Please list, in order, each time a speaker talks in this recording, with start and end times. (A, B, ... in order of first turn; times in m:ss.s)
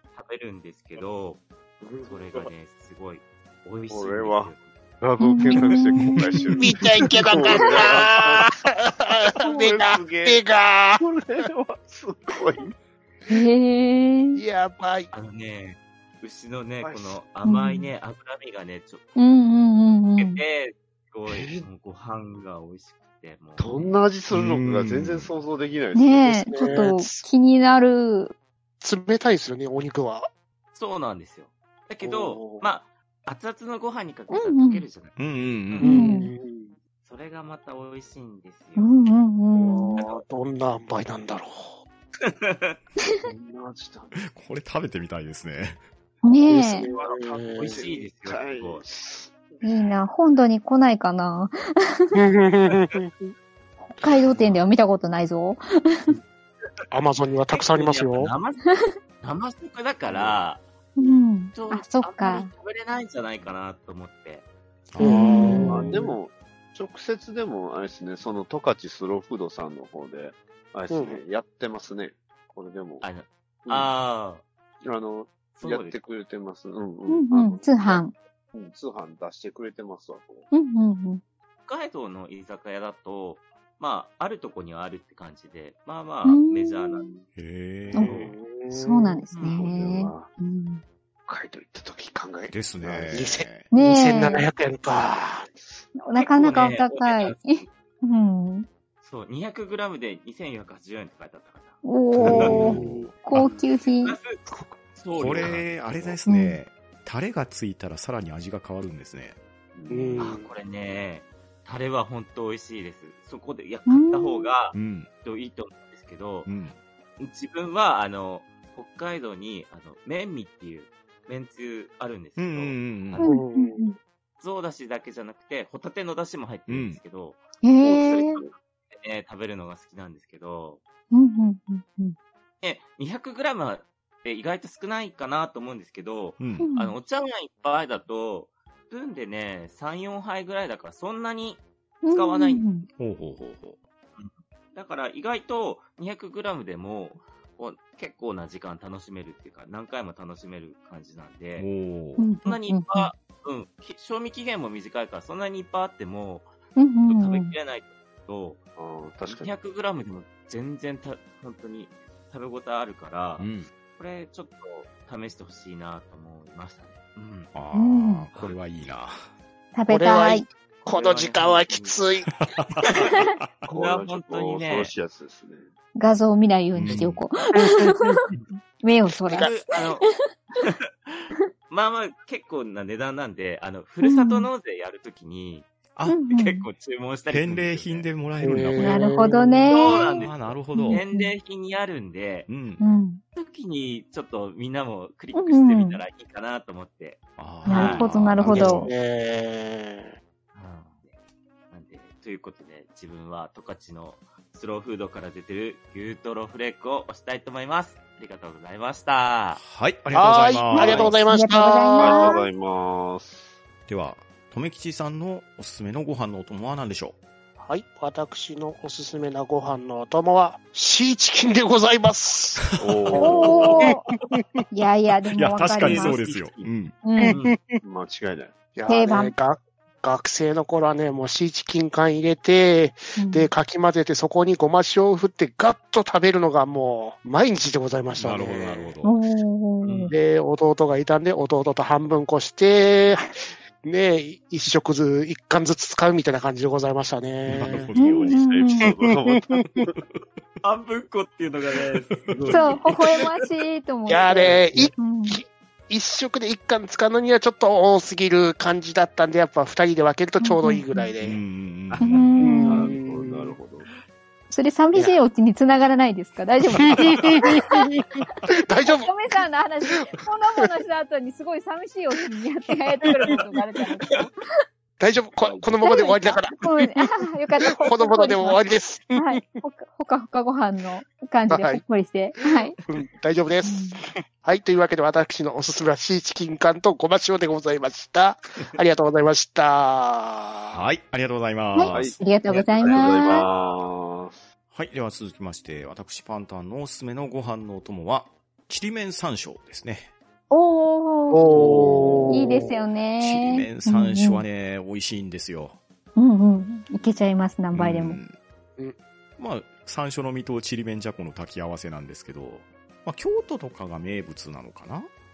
0:00.1-0:01.5 A
0:01.8-0:02.5 B
0:02.0-0:04.7 A
0:03.9-0:08.5 B
0:05.2-0:06.2 C
0:06.0-0:06.5 D
0:06.6-0:08.5 E
0:09.0-0:11.0 E
0:09.2-0:10.4 B
0:11.0-0:12.7 B
0:13.3-0:14.4 C
0:14.3-0:15.1 E
0:15.1-0:19.2 A
0:16.8-0:17.2 B
0:17.4-0:17.9 C
0:19.2-0:20.4 C
0:20.2-0:24.0 A
0:21.3-0:21.7 B
0:23.6-0:26.5 B
0:24.3-0:25.3 D
0:25.9-0:28.3 C
0:26.5-0:27.2 E
0:28.8-0:30.2 E
0:30.7-0:36.1 A
0:32.0-0:32.7 E
0:34.3-0:34.8 C
0:35.2-0:36.1 D
0:35.8-0:36.8 E
0:35.8-0:36.3 C
0:37.0-0:39.1 A
0:38.8-0:40.0 C
0:39.6-0:41.8 E
0:39.9-0:40.2 A
0:42.2-0:42.8 A
0:43.1-0:44.2 B
0:44.1-0:45.8 D
0:46.2-0:46.9 C
0:46.5-0:47.8 E
0:46.9-0:48.8 A
0:47.5-0:50.0 B
0:49.6-0:52.1 C
0:52.1-0:53.3 E
0:53.8-0:56.1 C
0:54.3-0:54.6 A
0:56.9-0:58.3 E
0:57.5-1:04.5 A
1:00.1-1:00.4 B
1:01.0-1:02.5 C
1:04.9-1:05.7 D
1:05.0-1:06.1 E
1:05.0-1:06.0 C
1:05.2-1:13.0 B
1:10.9-1:11.2 E
1:13.0-1:14.4 A
1:14.8-1:20.5 B
1:15.5-1:16.0 A
1:17.1-1:18.1 C
1:20.5-1:21.2 C
1:21.6-1:27.2 A
1:26.2-1:27.1 C
1:27.4-1:28.1 D
1:28.0-1:29.2 E
1:28.7-1:30.8 C
1:29.3-1:29.6 A
1:29.4-1:30.3 B
1:31.3-1:33.3 B
1:32.5-1:33.7 D
1:33.1-1:35.5 E
1:33.7-1:34.4 C
1:36.0-1:38.7 C
1:36.2-1:37.7 A
1:39.0-1:41.8 A
1:41.8-1:44.2 C
1:42.2-1:43.5 D
1:42.3-1:42.8 B
1:42.5-1:43.0 E
1:44.0-1:45.7 A
1:44.5-1:46.2 B
1:45.2-1:49.4 D
1:46.2-1:46.6 C
1:49.7-1:50.4 B
1:49.9-1:50.4 E
1:50.2-1:56.5 A
1:53.9-1:54.5 C
1:54.7-1:55.1 D
1:56.4-1:56.8 D
1:57.2-2:03.3 A
2:02.4-2:03.2 D
2:03.2-2:04.0 C
2:03.2-2:03.9 E
2:04.4-2:10.8 A
2:06.7-2:07.0 D
2:07.6-2:08.4 C
2:11.1-2:12.2 C
2:12.6-2:22.6 A
2:16.4-2:16.6 D
2:16.6-2:16.9 C
2:22.0-2:22.9 C
2:23.0-2:23.8 D
2:24.2-2:31.7 A
2:31.6-2:32.3 D
2:32.2-2:33.1 C
2:32.4-2:36.5 A
2:36.8-2:37.5 C
2:37.1-2:38.6 A
2:38.8-2:39.5 B
2:39.2-2:47.5 A
2:43.4-2:43.7 D
2:47.5-2:49.2 D
2:47.7-2:48.3 C
2:48.3-2:48.6 A
2:49.7-2:50.5 C
2:49.9-2:52.3 E
2:50.8-2:52.0 A
2:52.4-2:53.4 D
2:52.8-2:54.9 A
2:53.7-2:55.7 B
2:56.0-2:58.2 C
2:56.7-2:57.2 D
2:57.6-2:58.1 E
2:58.8-2:59.6 C
2:59.3-3:05.7 A
3:04.0-3:04.5 C
3:05.9-3:06.2 D
3:06.1-3:06.7 C
3:06.3-3:08.1 A
3:07.3-3:09.1 D
3:08.4-3:09.7 E
3:08.8-3:10.1 C
3:09.7-3:12.5 A
3:09.9-3:11.0 D
3:10.7-3:11.3 C
3:12.5-3:12.8 D
3:12.8-3:13.2 C
3:13.4-3:18.1 A
3:15.3-3:16.0 C
3:17.4-3:18.9 D
3:17.6-3:18.9 C
3:18.4-3:20.1 E
3:20.5-3:21.2 A
3:21.7-3:29.6 A
3:29.6-3:31.2 D
3:30.1-3:32.4 E
3:30.8-3:31.1 B
3:30.9-3:32.4 C
3:32.0-3:33.5 B
3:33.9-3:37.2 D
3:37.6-3:44.6 E
3:42.8-3:43.8 B
3:43.2-3:44.0 C
3:44.7-3:46.2 C
3:45.3-3:47.0 D
3:45.8-3:46.7 A
3:47.0-3:47.4 C
3:47.2-3:47.8 E
3:47.3-3:47.6 A
3:47.8-3:48.5 B
3:48.8-3:58.9 E
3:48.9-3:49.3 C
3:53.2-3:53.5 C
3:58.1-3:59.2 D
3:59.0-4:00.1 C
3:59.8-4:00.1 A
4:00.1-4:07.9 E
4:07.5-4:08.4 D
4:07.6-4:09.6 B
4:08.0-4:08.9 C
4:08.9-4:09.7 E
4:10.6-4:12.3 A
4:12.3-4:12.7 D
4:12.3-4:12.8 B
4:12.5-4:15.4 C
4:14.1-4:21.4 E
4:14.5-4:14.9 B
4:20.4-4:21.1 C
4:21.2-4:22.6 D
4:21.9-4:23.9 B
4:22.0-4:22.9 C
4:22.4-4:23.6 E
4:24.5-4:27.9 C
4:26.9-4:29.1 E
4:28.8-4:34.5 C
4:35.0-4:37.1 E
4:35.8-4:38.6 C
4:37.7-4:39.4 E
4:39.2-4:42.8 C
4:41.5-4:41.8 E
4:42.9-4:50.8 E
4:43.6-4:44.0 C
4:50.6-4:52.1 D
4:51.7-4:53.4 C
4:51.9-4:54.4 B
4:54.7-5:00.1 D
5:00.5-5:01.6 C
5:01.3-5:02.7 E
5:01.5-5:02.5 B
5:02.3-5:04.4 C
5:03.2-5:05.8 D
5:06.2-5:08.2 C
5:07.7-5:08.3 D
5:09.4-5:15.1 D